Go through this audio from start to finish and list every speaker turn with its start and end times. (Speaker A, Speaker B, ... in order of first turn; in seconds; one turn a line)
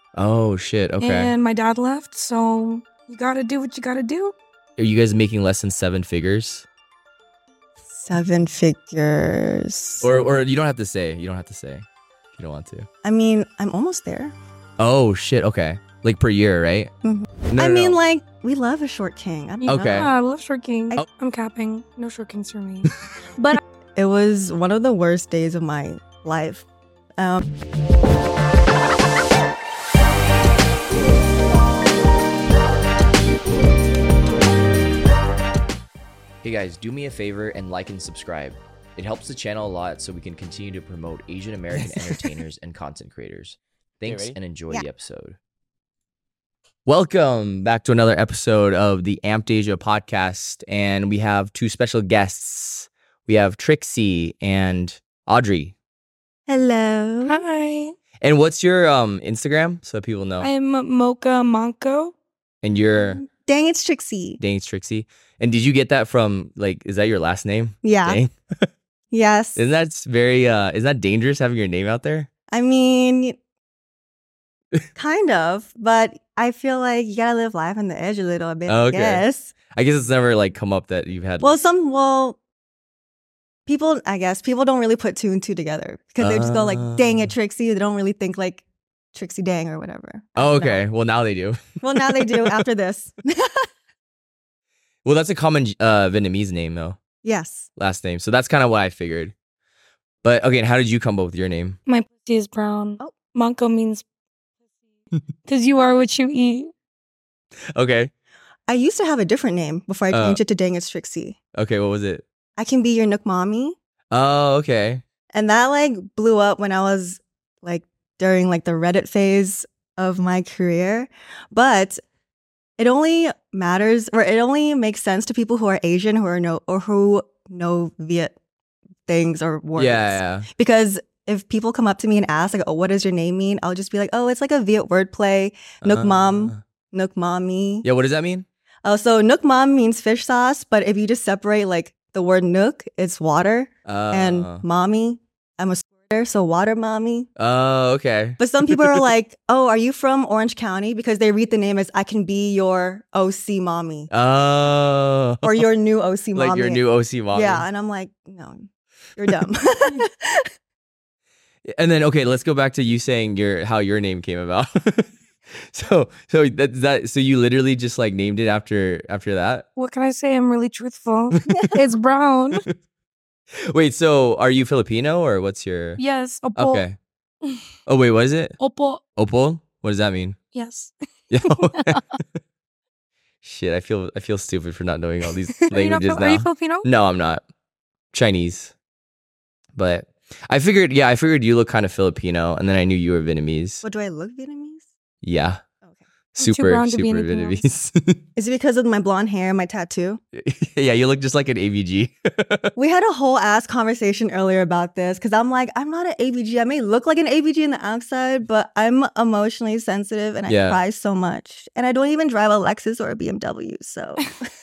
Speaker A: 0.1-1.3
Speaker B: 1.0-4.3
Speaker A: 4.8-6.7
Speaker C: 7.9-10.1
Speaker A: 10.0-11.8
Speaker A: 12.3-12.9
Speaker C: 13.0-14.3
Speaker A: 14.8-16.9
Speaker C: 17.0-20.0
Speaker A: 17.5-17.9
Speaker B: 19.6-23.6
Speaker A: 19.7-20.1
Speaker C: 23.9-26.6
Speaker C: 27.2-27.5
Speaker A: 36.4-45.4
Speaker C: 41.8-42.3
Speaker A: 46.9-55.7
Speaker C: 56.5-57.4
Speaker B: 57.2-58.0
Speaker A: 58.2-60.5
Speaker B: 60.4-62.1
Speaker A: 62.6-63.2
Speaker C: 63.0-64.4
Speaker A: 64.4-68.3
Speaker C: 67.8-68.2
Speaker C: 69.1-69.6
Speaker A: 69.5-72.3
Speaker C: 72.5-73.4
Speaker C: 75.0-79.5
Speaker A: 78.7-81.6
Speaker C: 81.4-82.4
Speaker C: 83.7-90.8
Speaker A: 86.2-87.3
Speaker A: 90.3-92.6
Speaker C: 91.8-93.7
Speaker A: 95.0-97.0
Speaker C: 97.2-97.7
Speaker A: 97.8-99.3
Speaker A: 100.2-101.8
Speaker B: 101.8-104.0
Speaker B: 105.5-106.7
Speaker A: 107.7-108.1
Speaker C: 108.7-111.4
Speaker A: 110.1-110.4
Speaker A: 111.5-112.2
Speaker C: 112.6-113.8
Speaker A: 114.1-115.0
Speaker C: 115.3-122.0
Speaker C: 122.8-128.3
Speaker C: 129.1-137.8
Speaker A: 129.8-130.5
Speaker A: 135.8-136.6
Speaker A: 137.8-138.4
Speaker C: 138.8-147.3
Speaker A: 143.8-144.6
Speaker A: 147.4-148.4
Speaker C: 148.4-154.1
Speaker A: 154.1-155.7
Speaker C: 155.4-160.5
Speaker A: 156.3-157.7
Speaker A: 161.7-169.7
Speaker B: 169.8-172.6
Speaker A: 171.3-171.7
Speaker C: 171.5-171.7
Speaker A: 173.7-176.0
Speaker B: 176.0-176.8
Speaker A: 176.6-176.9
Speaker A: 177.8-178.6
Speaker B: 178.6-179.0
Speaker A: 179.2-180.4
Speaker B: 180.5-180.9
Speaker A: 181.3-182.0
Speaker B: 181.4-182.0
Speaker A: 183.4-187.4
Speaker B: 185.7-186.9
Speaker A: 188.1-188.7
Speaker A: 189.8-193.8
Speaker C: 193.8-194.9
Speaker A: 195.2-195.6
Speaker A: 196.3-198.2
Speaker B: 196.4-197.6
Speaker C: 198.3-200.2
Speaker A: 200.3-202.7
Speaker C: 202.8-214.5
Speaker A: 210.5-210.8